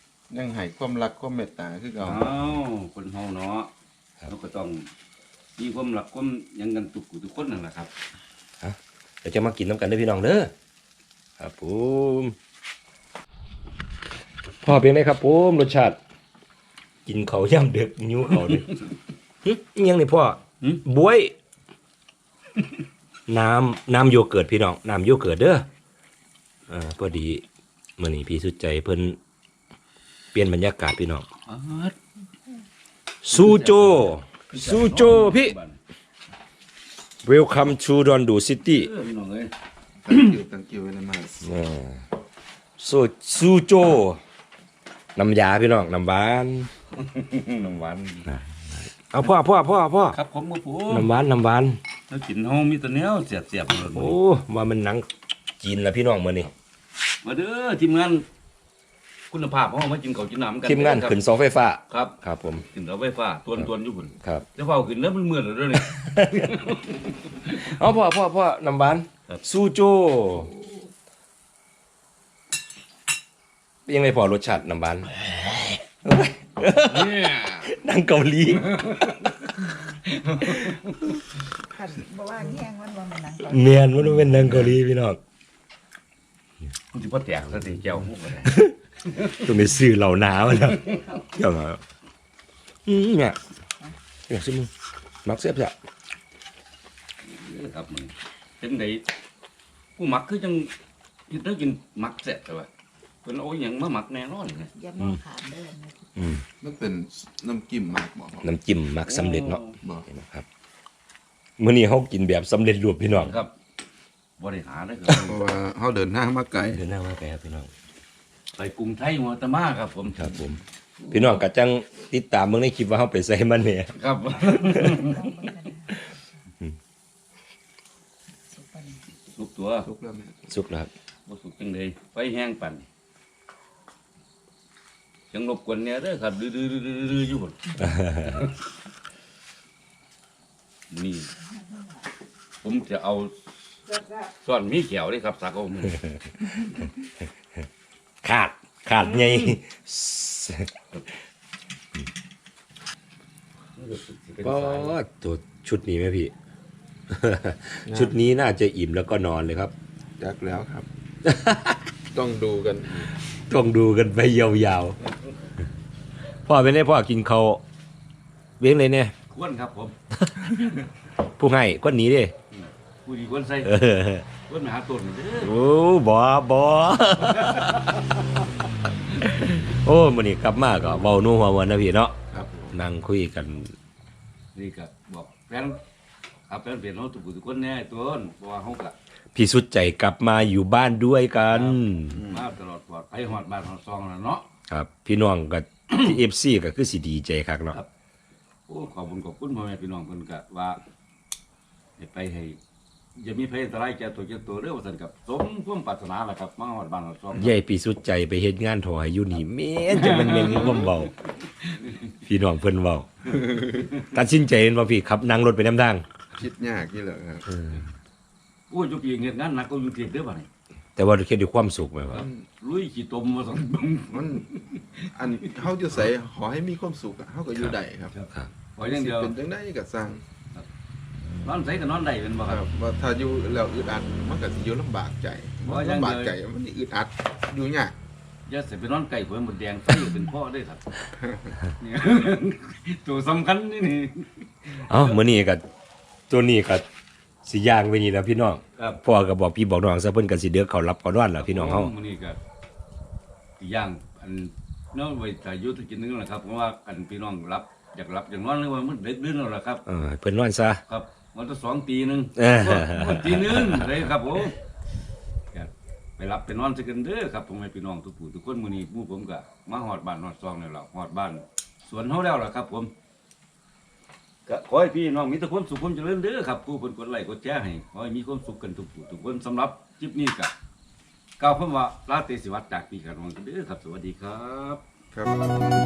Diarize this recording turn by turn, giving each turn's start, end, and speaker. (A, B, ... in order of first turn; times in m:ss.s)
0:00.3-0:02.3 A
0:02.0-0:03.7 B
0:04.3-0:04.9 B
0:05.6-0:07.9 B
0:08.6-0:10.5 C
0:11.4-0:12.4 C
0:14.6-0:16.0 C
0:17.1-0:18.7 C
0:19.4-0:21.3 C
0:23.3-0:25.7 C
0:26.7-0:27.4 C
0:28.0-0:29.2 C
0:30.3-0:31.3 C
0:31.5-0:32.0 B
0:33.2-0:35.6 C
0:33.3-0:35.8 B
0:37.2-0:38.9 C
0:38.7-0:39.5 B
0:40.0-0:41.5 A
0:41.4-0:42.0 C
0:42.8-0:44.2 C
0:45.2-0:46.7 C
0:47.0-0:48.3 B
0:49.1-0:50.2 C
0:50.1-0:51.1 B
0:50.9-0:51.8 C
0:52.1-0:54.2 B
0:53.8-0:55.1 C
0:55.6-0:56.5 C
0:57.2-0:58.3 B
0:59.3-1:01.2 B
1:00.6-1:02.6 C
1:01.9-1:02.2 B
1:02.7-1:07.5 B
1:06.0-1:06.5 C
1:07.5-1:10.5 C
1:13.9-1:15.1 C
1:16.0-1:19.3 C
1:16.9-1:17.7 B
1:18.6-1:21.0 B
1:21.7-1:23.9 D
1:23.5-1:25.2 C
1:24.2-1:24.8 B
1:26.9-1:29.6 B
1:28.5-1:28.7 C
1:29.4-1:31.8 C
1:32.9-1:33.4 C
1:34.3-1:34.7 C
1:35.2-1:35.8 C
1:37.2-1:39.0 B
1:40.0-1:40.7 B
1:41.3-1:42.7 B
1:43.2-1:44.7 B
1:44.8-1:46.1 D
1:46.2-1:46.4 C
1:46.6-1:48.5 A
1:48.4-1:50.5 C
1:49.1-1:49.8 B
1:49.8-1:50.1 A
1:51.6-1:53.4 C
1:53.1-1:53.5 B
1:54.4-1:55.5 B
1:55.1-1:56.8 A
1:56.7-1:57.7 C
1:58.6-2:00.3 B
2:00.2-2:00.6 C
2:00.2-2:00.6 A
2:01.1-2:04.0 C
2:04.0-2:05.3 B
2:04.5-2:05.1 C
2:04.8-2:06.1 D
2:08.5-2:09.0 D
2:09.3-2:09.9 B
2:09.8-2:10.5 A
2:10.5-2:10.9 C
2:11.3-2:12.8 B
2:15.3-2:18.5 B
2:17.8-2:18.4 C
2:20.9-2:21.3 B
2:22.6-2:23.4 B
2:24.1-2:26.1 B
2:28.2-2:30.7 C
2:33.8-2:35.0 B
2:34.4-2:36.3 C
2:37.1-2:39.7 C
2:37.8-2:38.2 A
2:40.2-2:40.9 A
2:41.3-2:41.8 C
2:42.1-2:43.1 A
2:43.5-2:45.0 C
2:46.5-2:47.6 C
2:48.6-2:49.1 C
2:49.3-2:50.0 B
2:50.1-2:50.5 C
2:51.4-2:52.3 C
2:52.5-2:53.7 B
2:53.6-2:54.3 C
2:54.4-2:55.5 B
2:55.4-2:57.9 C
2:57.3-2:58.2 B
2:59.2-3:02.2 C
3:02.3-3:02.7 A
3:02.7-3:03.7 C
3:04.6-3:05.8 B
3:06.5-3:09.0 B
3:09.4-3:12.2 C
3:11.5-3:14.5 B
3:12.2-3:12.4 A
3:14.7-3:17.8 C
3:18.7-3:20.8 B
3:22.0-3:22.6 B
3:23.2-3:27.5 B
3:27.4-3:31.1 C
3:29.9-3:32.0 B
3:32.2-3:33.1 C
3:34.1-3:36.0 C
3:36.3-3:37.5 A
3:37.6-3:37.8 C
3:38.7-3:40.5 B
3:41.0-3:42.3 C
3:42.1-3:44.8 B
3:42.1-3:42.4 A
3:44.1-3:48.1 A
3:48.1-3:49.4 B
3:48.8-3:50.2 A
3:51.4-3:52.7 B
3:52.4-3:58.0 A
3:55.6-3:56.4 B
3:58.5-4:00.8 B
4:01.2-4:01.6 A
4:01.8-4:05.2 B
4:04.7-4:05.6 C
4:06.3-4:06.8 C
4:07.4-4:11.9 C
4:11.4-4:12.4 B
4:13.6-4:19.8 B
4:19.9-4:20.8 C
4:20.9-4:24.6 B
4:22.4-4:24.0 C
4:25.5-4:32.9 B
4:34.5-4:40.5 B
4:41.4-4:44.8 B
4:45.1-4:45.4 A